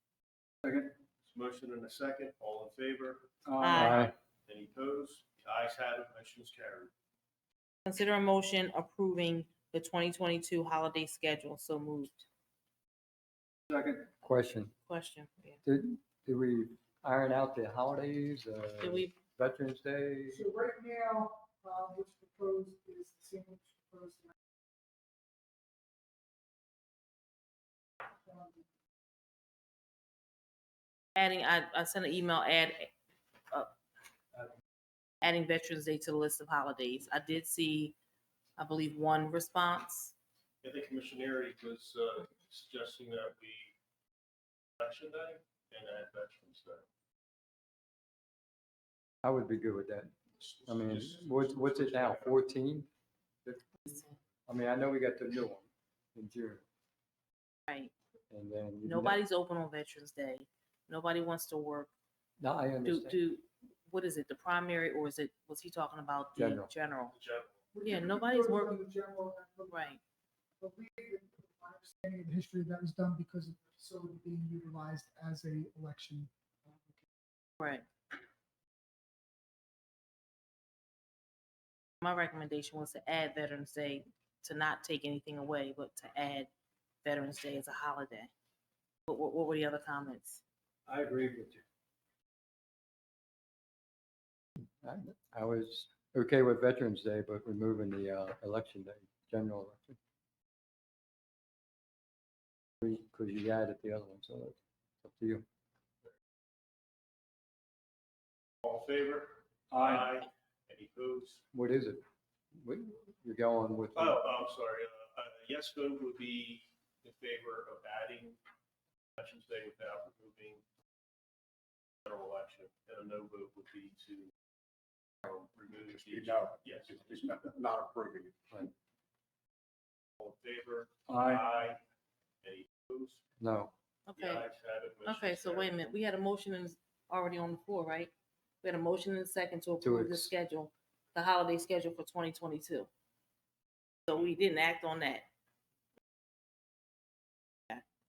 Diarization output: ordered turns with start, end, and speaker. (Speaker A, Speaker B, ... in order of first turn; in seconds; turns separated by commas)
Speaker A: 0.6-0.9, Speaker B: 1.2-6.9, Speaker A: 3.5-4.1, Speaker C: 3.6-4.1, Speaker C: 7.9-12.3, Speaker A: 13.7-14.7, Speaker C: 14.9-15.6, Speaker A: 15.6-20.4, Speaker C: 18.8-19.1, Speaker D: 20.3-24.3, Speaker D: 28.2-28.6, Speaker C: 31.2-32.9, Speaker C: 35.2-38.0, Speaker C: 38.6-40.1, Speaker B: 40.6-43.7, Speaker B: 44.8-46.9, Speaker A: 49.2-52.9, Speaker B: 50.4-52.4, Speaker A: 53.4-53.9, Speaker A: 54.5-56.6, Speaker C: 57.7-57.9, Speaker A: 58.3-59.2, Speaker C: 58.8-61.9, Speaker A: 62.4-63.2, Speaker C: 62.8-67.1, Speaker A: 66.4-66.7, Speaker B: 67.1-67.6, Speaker D: 67.7-69.8, Speaker C: 67.8-68.8, Speaker C: 69.7-70.0, Speaker D: 70.6-77.0, Speaker C: 77.6-77.9, Speaker C: 82.0-86.5, Speaker C: 87.0-88.3, Speaker C: 89.1-90.4, Speaker A: 90.9-91.6, Speaker A: 94.6-100.0, Speaker A: 102.8-105.5, Speaker B: 108.6-111.4, Speaker A: 109.7-110.0, Speaker A: 111.5-112.0, Speaker A: 112.6-114.2, Speaker B: 114.0-118.4, Speaker B: 119.2-120.6, Speaker B: 122.1-124.3, Speaker B: 125.2-127.6, Speaker E: 125.9-128.3, Speaker B: 130.2-131.8, Speaker A: 131.1-131.4, Speaker B: 132.4-133.2, Speaker A: 133.4-133.7, Speaker C: 134.1-134.4, Speaker B: 134.2-135.8, Speaker C: 135.1-142.9, Speaker A: 139.8-140.3, Speaker C: 144.1-145.3